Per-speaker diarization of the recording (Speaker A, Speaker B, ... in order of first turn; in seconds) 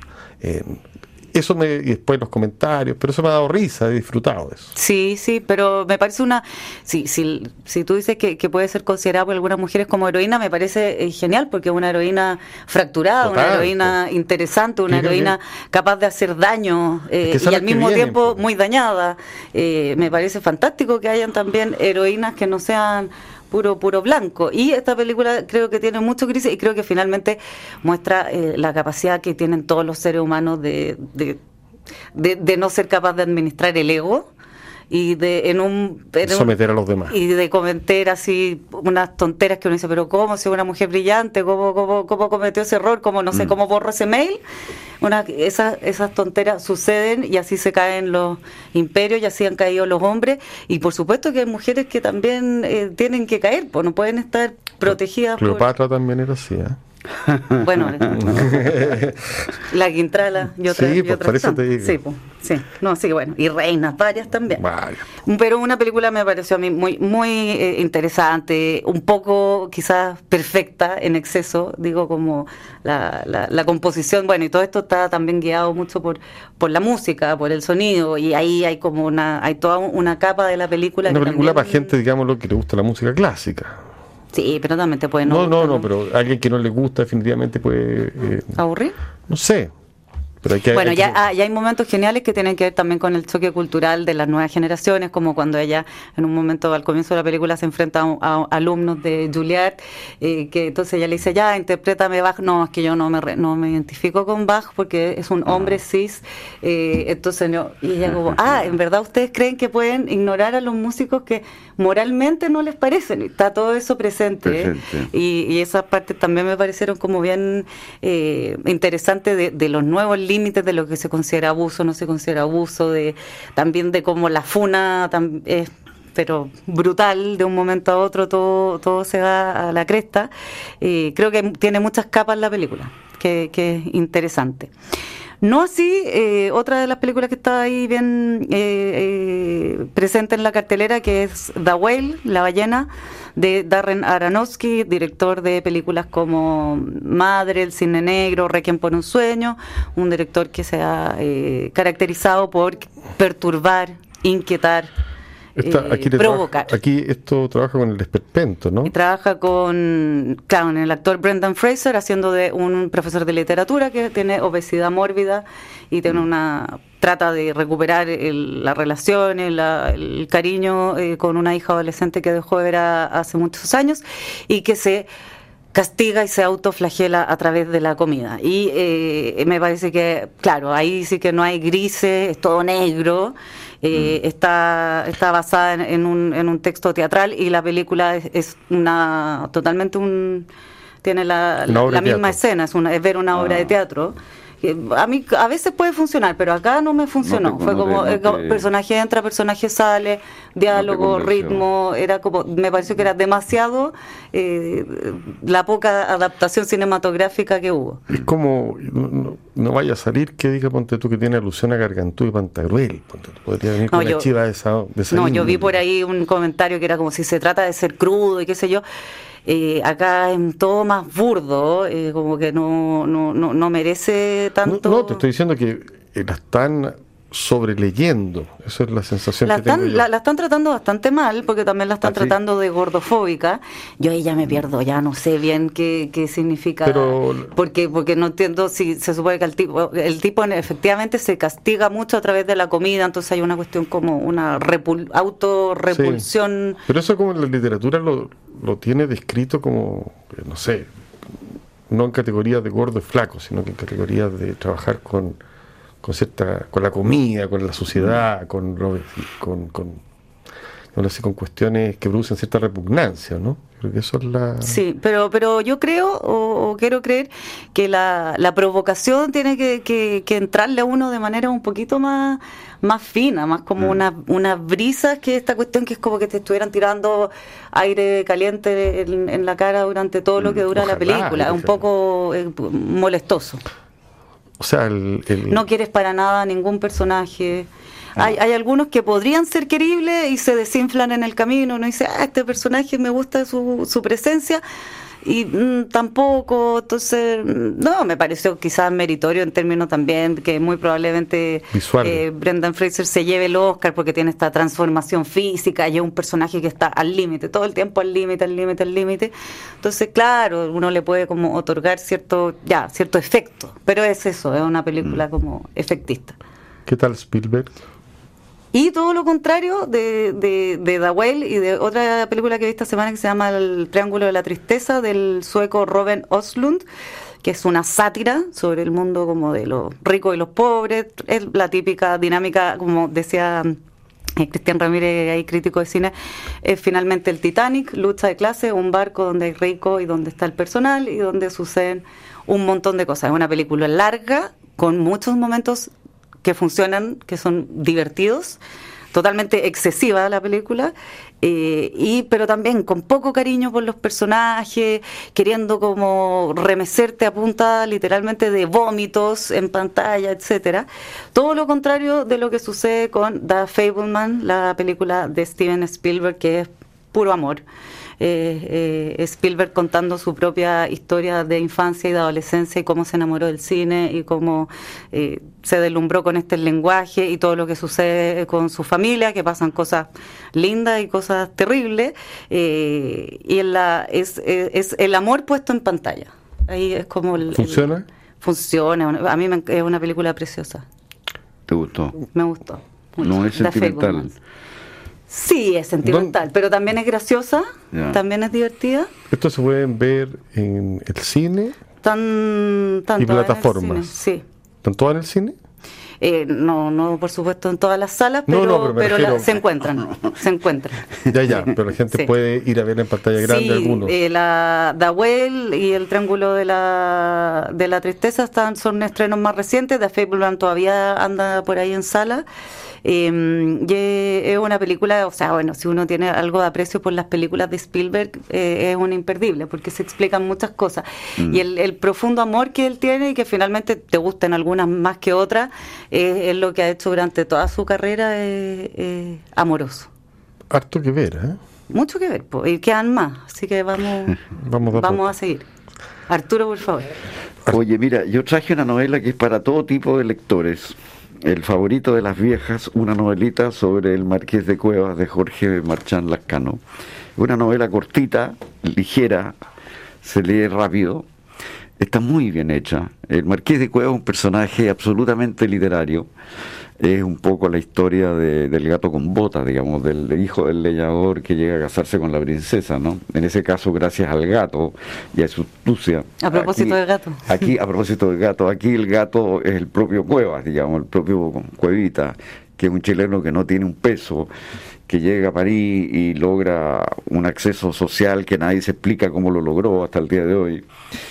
Speaker A: 0.4-4.7, 13.2-13.9, 14.9-15.3, 17.2-18.4, 36.2-37.1, 54.9-56.8, 58.1-59.5, 60.7-62.0, 64.6-65.1, 81.0-83.8, 85.2-88.6, 89.3-89.7, 90.4-91.2, 155.6-158.9, 191.7-192.4, 208.1-215.7, 224.7-230.1, 236.8-237.5, 245.9-246.3, 246.9-250.9, 251.9-255.4, 256.0-260.0, 260.9-264.8, 280.7-281.8, 284.6-285.6, 301.7-302.2, 316.9-317.8, 387.5-388.1, 396.1-396.3, 399.3-401.8, 403.2-404.2, 404.8-405.6, 408.5-409.6, 411.3-414.2, 440.7-441.6, 444.6-445.3
Speaker B: 4.8-31.4, 32.1-34.3, 34.9-36.6, 37.1-44.4, 45.0-55.7, 57.6-58.7, 59.6-64.6, 65.2-81.9, 84.3-85.9, 88.6-89.0, 90.7-130.3, 130.8-134.7, 135.4-154.9, 155.6-156.7, 158.9-175.1, 175.7-190.5, 191.0-208.0, 213.9-214.3, 215.1-218.8, 219.5-225.2, 229.4-246.8, 264.6-283.6, 285.5-294.6, 295.2-316.4, 318.7-326.8, 327.4-333.8, 334.4-345.9, 346.4-348.6, 349.1-367.6, 368.2-387.9, 388.4-390.9, 392.3-394.3, 395.3-399.1, 402.0-404.4, 406.2-411.1, 413.4-422.4, 423.0-440.1, 441.9-444.4, 444.9-445.7, 446.3-447.2, 476.4-477.7
Speaker C: 108.1-108.3, 114.5-115.1, 193.3-193.7, 197.2-198.7, 200.7-201.6, 232.1-232.4, 391.7-392.2, 393.2-394.3, 397.9-398.2, 447.7-456.8, 457.4-459.6, 460.2-461.2, 462.0-466.3, 467.0-484.5, 485.1-490.9